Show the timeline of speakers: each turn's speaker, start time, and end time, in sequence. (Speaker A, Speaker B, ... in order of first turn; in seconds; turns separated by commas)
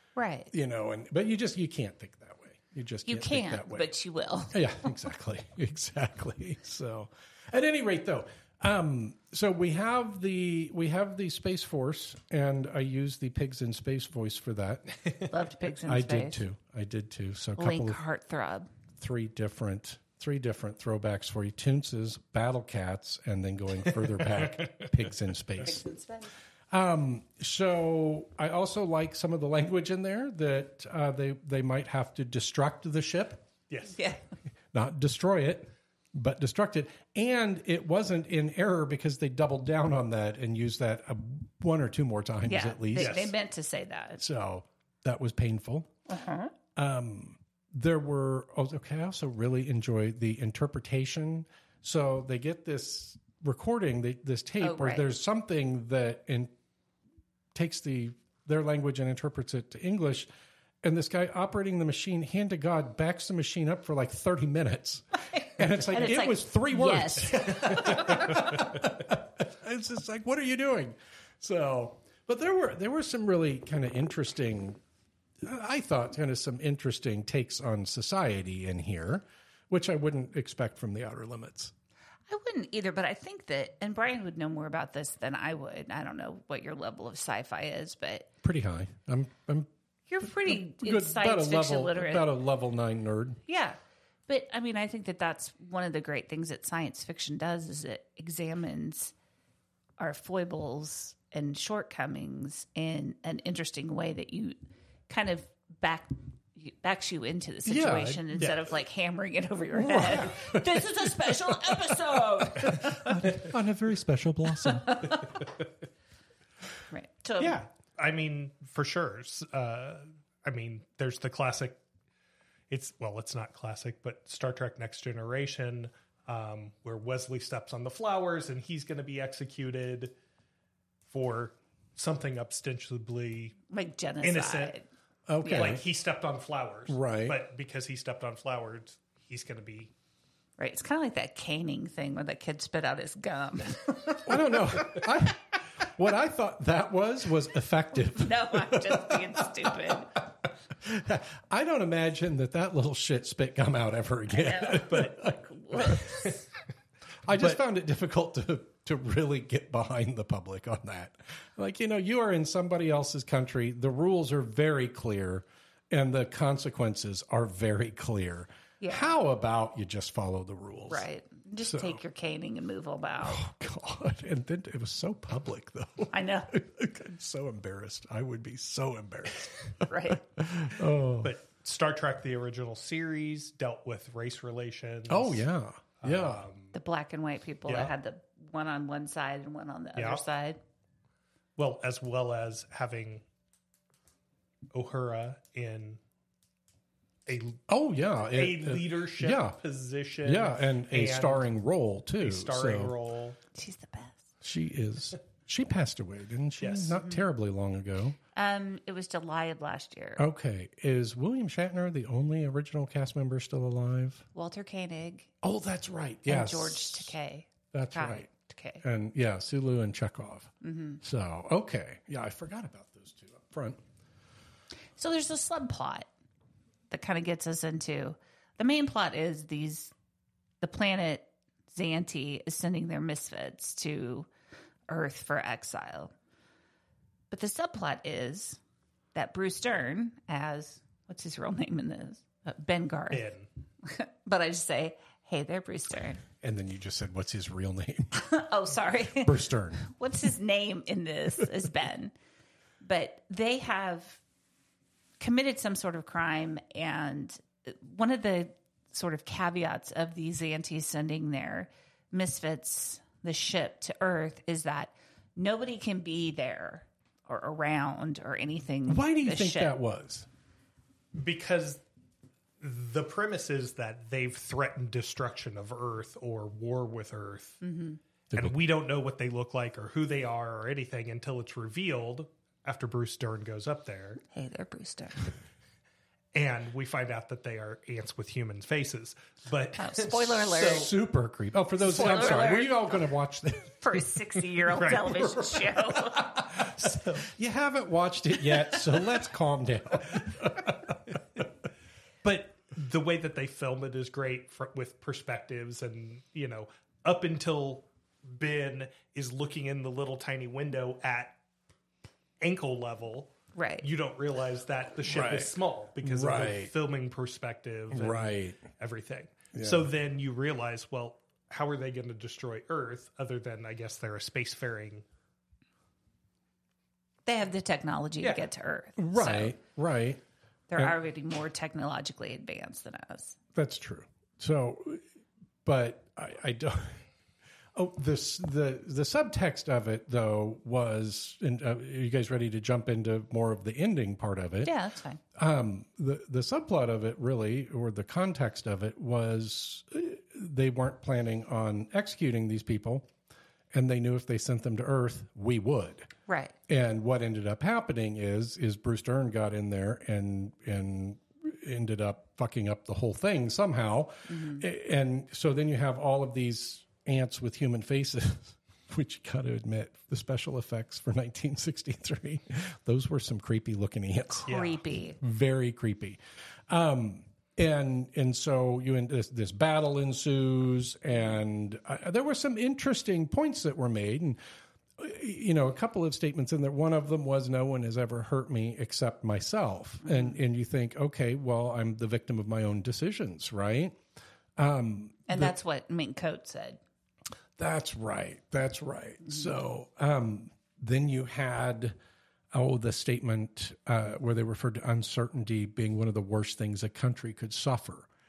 Speaker A: 0.2-0.5, Speaker B: 0.5-3.9, Speaker A: 3.1-4.9, Speaker B: 4.5-14.9, Speaker A: 15.3-16.4, Speaker B: 15.9-18.0, Speaker A: 17.6-18.7, Speaker B: 19.0-25.8, Speaker A: 25.7-26.3, Speaker B: 26.7-33.4, Speaker C: 33.7-34.0, Speaker A: 33.9-34.2, Speaker B: 34.7-43.3, Speaker A: 42.5-44.2, Speaker C: 42.9-43.3, Speaker B: 44.2-45.9, Speaker A: 46.1-46.5, Speaker B: 46.8-56.5, Speaker A: 54.6-55.0, Speaker B: 57.5-60.3, Speaker B: 60.8-74.8, Speaker A: 65.3-68.5, Speaker B: 75.4-81.7, Speaker A: 82.3-88.3, Speaker B: 88.4-89.7, Speaker A: 90.1-92.3, Speaker B: 90.2-93.4, Speaker A: 93.5-93.8, Speaker A: 94.3-99.1, Speaker A: 100.0-104.6, Speaker A: 105.1-113.2, Speaker B: 107.7-108.5, Speaker B: 109.7-111.8, Speaker B: 112.5-115.2, Speaker A: 114.8-115.3, Speaker A: 116.9-117.6, Speaker C: 117.4-121.8, Speaker C: 122.7-130.2, Speaker C: 131.1-133.6, Speaker A: 133.7-134.9, Speaker C: 134.2-134.8, Speaker B: 135.3-135.8, Speaker A: 135.4-135.8, Speaker C: 135.5-139.9, Speaker B: 136.9-137.4, Speaker A: 140.6-144.3, Speaker B: 144.2-150.2, Speaker A: 148.1-150.1, Speaker B: 150.7-156.2, Speaker A: 154.3-156.4, Speaker C: 154.9-155.2, Speaker B: 157.3-171.1, Speaker A: 168.8-169.1, Speaker A: 170.9-173.4, Speaker B: 171.6-172.0, Speaker B: 173.2-181.3, Speaker A: 176.1-176.5, Speaker A: 179.9-180.2, Speaker C: 181.2-185.5, Speaker B: 185.1-186.5, Speaker C: 186.0-186.7, Speaker A: 186.7-190.6, Speaker C: 187.7-187.9, Speaker C: 190.0-190.2, Speaker C: 191.6-193.2, Speaker C: 194.7-196.0, Speaker C: 197.3-197.6, Speaker B: 197.7-199.6, Speaker C: 198.3-201.5, Speaker B: 200.2-202.9, Speaker C: 202.2-203.4, Speaker A: 203.6-204.2, Speaker B: 204.4-208.2, Speaker C: 206.6-207.0, Speaker A: 208.4-210.2, Speaker B: 210.2-214.3, Speaker A: 214.3-215.3, Speaker B: 215.4-217.1, Speaker A: 216.3-218.8, Speaker B: 217.7-218.3, Speaker B: 218.8-223.8, Speaker A: 220.6-221.0, Speaker A: 225.0-226.1, Speaker A: 226.9-229.9, Speaker A: 230.6-234.3, Speaker A: 234.9-236.1, Speaker A: 237.3-238.6, Speaker A: 239.2-243.3, Speaker C: 243.1-243.5, Speaker A: 243.8-246.2, Speaker B: 246.4-248.2, Speaker A: 248.1-252.1, Speaker B: 249.2-249.8, Speaker A: 252.8-254.2, Speaker A: 255.2-269.8, Speaker B: 268.9-270.3, Speaker C: 271.1-271.8, Speaker C: 272.6-277.6, Speaker A: 277.6-278.0, Speaker C: 278.3-284.2, Speaker A: 284.3-285.3, Speaker C: 286.3-290.9, Speaker A: 289.8-290.9, Speaker B: 290.5-294.2, Speaker A: 291.8-293.0, Speaker A: 293.8-296.3, Speaker C: 294.7-295.6, Speaker C: 296.5-297.3, Speaker B: 296.5-301.0, Speaker C: 302.2-311.4, Speaker C: 312.4-325.0, Speaker A: 313.5-313.9, Speaker B: 315.1-315.5, Speaker B: 316.0-316.7, Speaker B: 317.9-318.6, Speaker B: 319.5-319.9, Speaker A: 327.3-329.6, Speaker B: 329.0-330.2, Speaker A: 330.7-333.4, Speaker B: 333.5-335.0, Speaker B: 335.6-337.0, Speaker B: 337.8-344.7, Speaker A: 344.6-345.2, Speaker B: 345.4-353.1, Speaker B: 353.7-356.1, Speaker A: 356.3-356.6, Speaker B: 356.7-374.5, Speaker A: 364.3-364.6, Speaker A: 374.3-375.2, Speaker C: 374.5-374.8, Speaker B: 375.2-384.4, Speaker B: 385.0-394.0, Speaker A: 390.1-390.4, Speaker B: 394.6-395.6, Speaker A: 395.3-396.8, Speaker B: 397.6-401.9, Speaker B: 402.5-408.1